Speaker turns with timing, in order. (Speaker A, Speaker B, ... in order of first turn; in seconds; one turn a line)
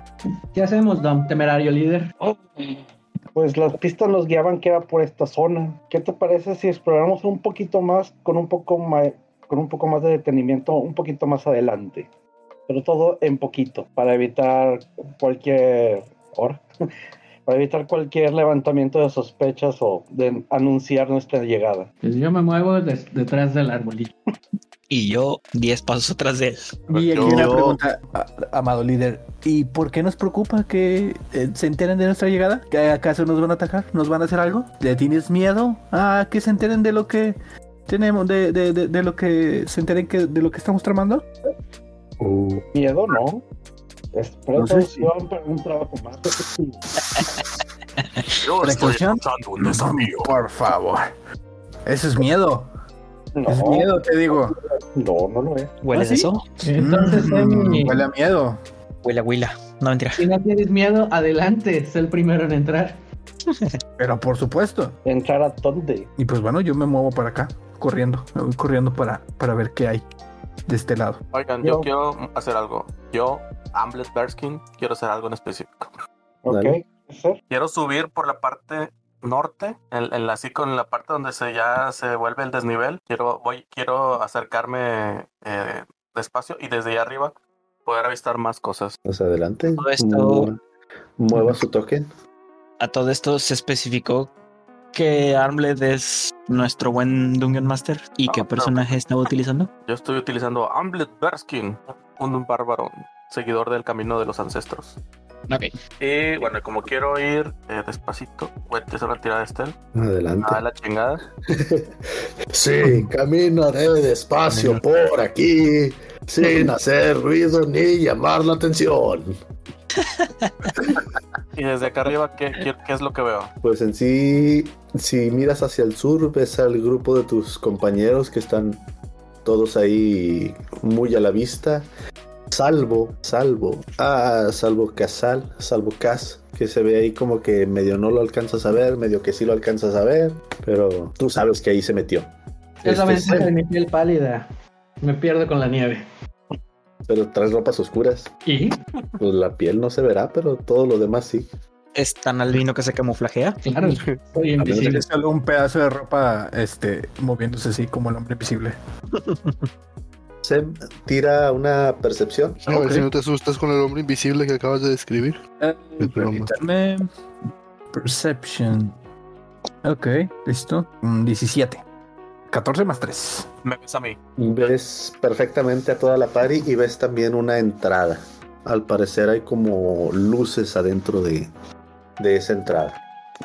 Speaker A: 0.5-2.1
Speaker B: 2.2-2.8
Speaker B: 3.3-12.1
Speaker B: 12.7-16.6
Speaker B: 17.4-21.9
Speaker A: 22.0-24.1
Speaker C: 24.9-26.8
Speaker D: 26.9-27.5
Speaker E: 26.9-41.2
Speaker F: 27.2-27.8
Speaker G: 42.2-42.6
Speaker B: 42.7-43.4
Speaker B: 44.1-46.8
Speaker E: 44.5-45.1
Speaker D: 48.4-50.3
Speaker E: 48.6-51.1
Speaker E: 51.9-52.7
Speaker B: 53.3-53.9
Speaker E: 53.5-54.6
Speaker B: 54.9-55.7
Speaker C: 55.8-56.4
Speaker E: 55.9-58.6
Speaker A: 56.6-58.0
Speaker C: 59.0-60.2
Speaker A: 60.1-63.0
Speaker E: 64.0-65.0
Speaker B: 65.0-66.1
Speaker E: 66.2-70.0
Speaker E: 70.7-71.2
Speaker D: 71.3-75.9
Speaker B: 71.6-71.9
Speaker B: 76.4-77.4
Speaker G: 76.5-76.8
Speaker D: 77.5-87.3
Speaker D: 87.8-88.9
Speaker G: 89.0-90.6
Speaker C: 89.8-90.5
Speaker G: 91.2-92.1
Speaker C: 92.8-94.3
Speaker C: 94.9-99.7
Speaker D: 98.3-98.9
Speaker D: 99.9-105.0
Speaker D: 106.0-109.7
Speaker G: 109.9-110.6
Speaker D: 110.4-111.2
Speaker G: 111.5-111.9
Speaker G: 112.5-119.4
Speaker F: 114.5-114.8
Speaker C: 120.2-120.6
Speaker D: 121.5-123.5
Speaker G: 123.6-128.8
Speaker G: 129.4-131.9
Speaker G: 132.5-142.3
Speaker A: 142.8-144.4
Speaker G: 142.8-143.5
Speaker A: 145.0-146.0
Speaker G: 147.1-148.3
Speaker A: 148.4-148.8
Speaker G: 149.2-151.5
Speaker C: 151.9-153.6
Speaker A: 153.6-155.1
Speaker G: 154.6-155.0
Speaker E: 154.7-158.8
Speaker G: 160.4-162.6
Speaker F: 162.7-165.4
Speaker E: 162.7-163.1
Speaker E: 165.6-167.1
Speaker F: 166.0-166.6
Speaker E: 167.9-168.9
Speaker E: 169.8-171.8
Speaker E: 172.5-173.5
Speaker D: 173.6-174.2
Speaker G: 174.4-181.5
Speaker G: 182.2-183.0